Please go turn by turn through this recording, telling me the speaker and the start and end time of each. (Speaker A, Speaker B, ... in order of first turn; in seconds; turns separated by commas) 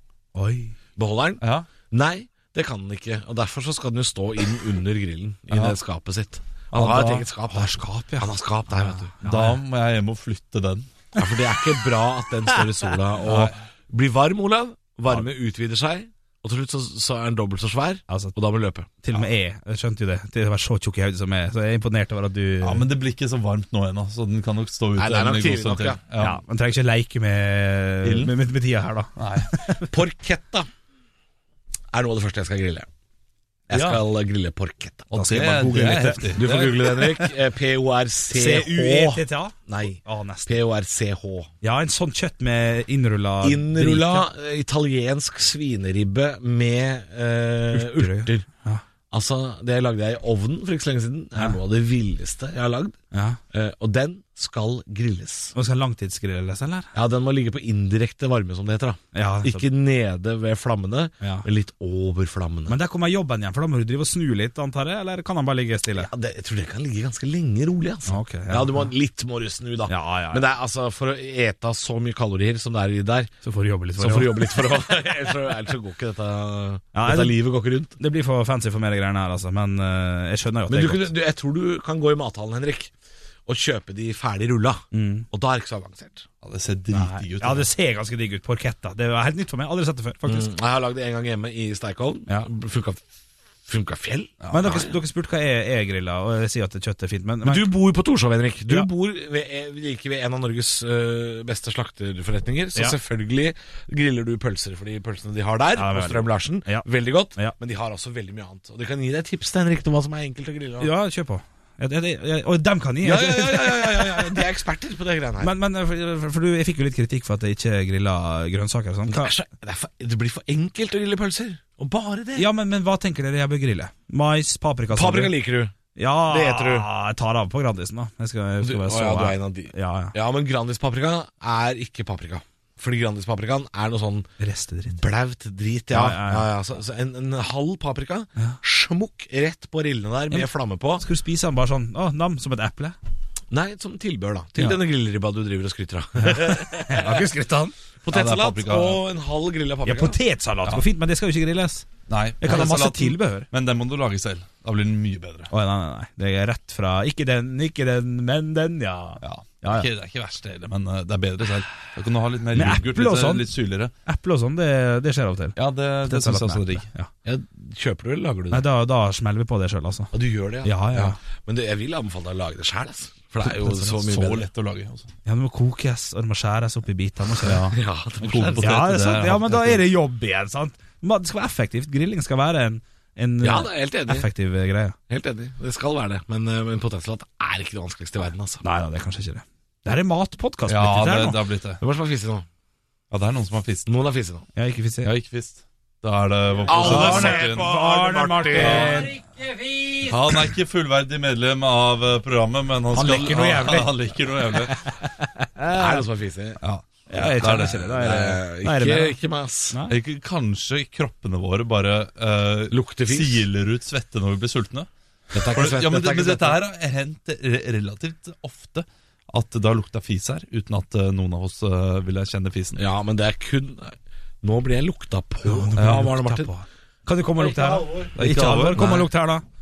Speaker A: 0.3-0.8, Speaker B: 1.0-9.1, Speaker C: 1.4-1.7, Speaker C: 5.5-5.8, Speaker C: 6.7-7.2, Speaker A: 7.5-9.6, Speaker C: 9.2-10.9, Speaker B: 11.2-18.9, Speaker C: 13.2-13.6, Speaker A: 18.1-18.3, Speaker A: 19.0-22.9, Speaker C: 22.6-26.4, Speaker B: 25.0-26.0, Speaker A: 26.2-29.9, Speaker C: 28.0-28.3, Speaker C: 29.2-29.5, Speaker B: 29.9-30.7, Speaker B: 31.9-32.9, Speaker B: 33.7-35.1, Speaker C: 33.7-34.0, Speaker C: 35.1-37.3, Speaker A: 35.1-36.4, Speaker B: 36.4-41.5, Speaker A: 38.3-40.5, Speaker A: 41.6-44.3, Speaker B: 43.4-48.5, Speaker A: 47.7-48.8, Speaker B: 49.1-53.0, Speaker A: 53.1-53.4, Speaker B: 53.5-55.5, Speaker A: 55.5-56.9, Speaker B: 56.9-62.8, Speaker A: 59.1-59.7, Speaker A: 62.7-66.1, Speaker B: 65.9-73.3, Speaker A: 68.1-68.9, Speaker A: 69.9-70.5, Speaker A: 73.4-74.8, Speaker B: 74.0-78.0, Speaker A: 76.9-77.4, Speaker A: 78.0-81.1, Speaker B: 80.7-82.9, Speaker B: 83.5-86.3, Speaker A: 84.9-85.3, Speaker C: 86.4-87.7, Speaker A: 86.9-90.5, Speaker B: 90.2-93.0, Speaker B: 93.7-95.0, Speaker C: 94.4-94.7, Speaker A: 94.5-97.7, Speaker B: 97.4-110.9, Speaker A: 105.8-107.5, Speaker A: 110.8-114.4, Speaker B: 113.0-115.5, Speaker A: 115.4-119.3, Speaker B: 119.1-122.5, Speaker A: 122.4-125.4, Speaker B: 124.9-125.7, Speaker A: 126.0-130.2, Speaker B: 126.3-126.9, Speaker B: 128.6-134.3, Speaker A: 134.4-135.0, Speaker B: 135.0-141.0, Speaker A: 135.9-136.5, Speaker A: 141.0-143.0, Speaker B: 143.5-147.3, Speaker A: 146.2-147.8, Speaker B: 148.0-150.2, Speaker C: 148.1-149.0, Speaker A: 149.9-151.9, Speaker C: 152.1-155.5, Speaker A: 152.4-153.5, Speaker A: 155.5-159.9, Speaker C: 159.2-163.9, Speaker A: 162.6-163.5, Speaker A: 164.1-167.1, Speaker C: 165.6-166.9, Speaker B: 167.2-168.7, Speaker A: 168.5-170.1, Speaker B: 170.1-174.5, Speaker A: 170.6-171.2, Speaker A: 173.5-173.9, Speaker C: 173.7-175.1, Speaker A: 175.2-177.8, Speaker C: 177.4-179.8, Speaker B: 177.7-178.9, Speaker A: 178.6-185.0, Speaker B: 183.4-184.3, Speaker B: 185.1-188.6, Speaker A: 188.6-191.4, Speaker C: 190.7-191.8, Speaker B: 191.8-192.5, Speaker C: 193.1-193.9, Speaker B: 193.9-194.5, Speaker A: 194.6-195.1, Speaker C: 195.0-197.8, Speaker B: 196.7-199.1, Speaker A: 196.7-199.2, Speaker C: 198.5-199.1, Speaker C: 199.9-204.8, Speaker A: 202.9-203.9, Speaker A: 204.7-206.0, Speaker B: 205.7-206.6, Speaker C: 206.6-208.3, Speaker A: 207.1-209.2, Speaker B: 207.2-209.8, Speaker C: 209.9-214.9, Speaker B: 212.7-213.5, Speaker B: 215.3-216.6, Speaker C: 215.5-222.8, Speaker B: 222.8-226.5, Speaker A: 225.4-229.4, Speaker C: 225.8-226.2, Speaker C: 228.2-229.1, Speaker B: 228.8-229.0